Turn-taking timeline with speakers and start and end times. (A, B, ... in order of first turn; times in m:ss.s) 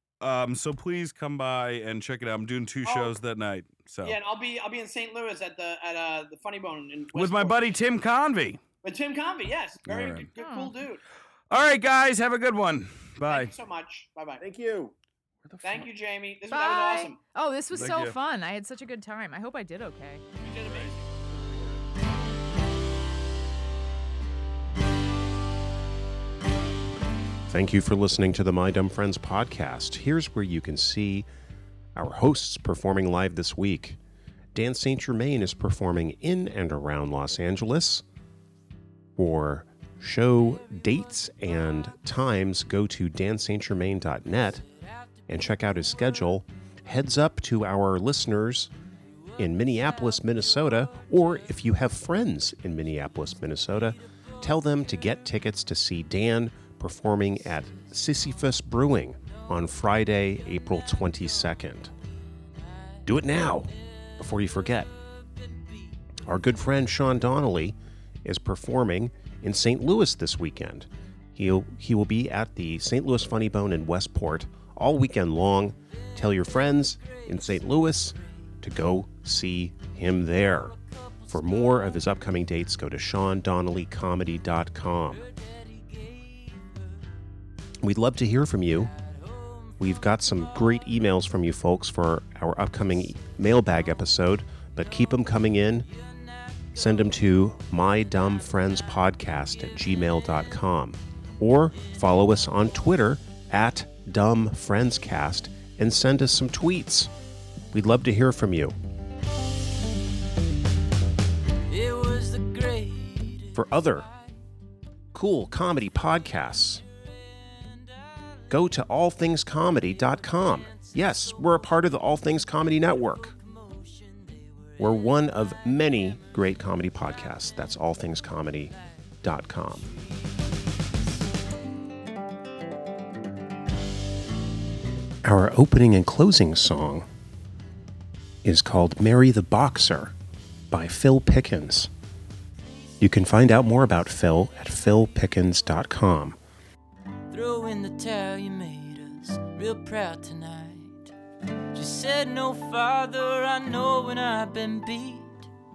0:00.2-0:04.2 A
0:02.8-0:03.1 B
0:04.0-0:07.6 B
0:07.1-0:08.6 A
0:08.8-0:11.0 B
0:09.8-0:10.3 A
0:10.4-0:10.7 C
0:11.5-0:13.5 A
0:13.2-0:14.4 B
0:14.4-0:14.9 D
0:15.5-0:15.8 A
0:15.6-0:17.2 B
0:16.5-0:20.2 C
0:17.7-0:18.2 A
0:20.4-0:21.1 B
0:21.3-0:21.8 D
0:27.5-0:31.2 D
0:32.0-0:34.0 D
0:34.5-0:38.0 D
0:39.2-0:44.6 D
0:40.7-0:42.2 E
0:44.4-0:46.4 E
0:45.3-0:48.7 D
0:49.2-0:51.7 E
0:49.4-1:01.9 D
0:54.0-0:54.8 E
0:57.4-0:58.2 E
0:59.2-0:59.8 E
1:02.5-1:06.0 E
1:03.0-1:03.7 D
1:04.2-1:04.9 D
1:06.2-1:20.7 D
1:16.2-1:18.2 E
1:20.4-1:22.1 E
1:21.3-1:25.2 D
1:25.1-1:26.8 E
1:27.8-1:28.9 D
1:28.7-1:30.3 E
1:29.8-1:35.8 D
1:35.9-1:37.2 E
1:36.8-1:47.1 D
1:47.7-1:48.7 D
1:51.7-1:54.3 E
1:53.6-1:54.0 D
1:55.1-1:56.8 D
1:57.3-1:58.8 E
1:58.5-2:03.3 D
1:59.8-2:07.8 E
2:04.8-2:08.7 D
2:08.6-2:10.4 E
2:09.2-2:09.8 D
2:15.2-2:17.0 D
2:18.4-2:20.1 D
2:20.7-2:21.9 D
2:23.0-2:26.4 D
2:27.3-2:31.1 E
2:31.7-2:35.5 E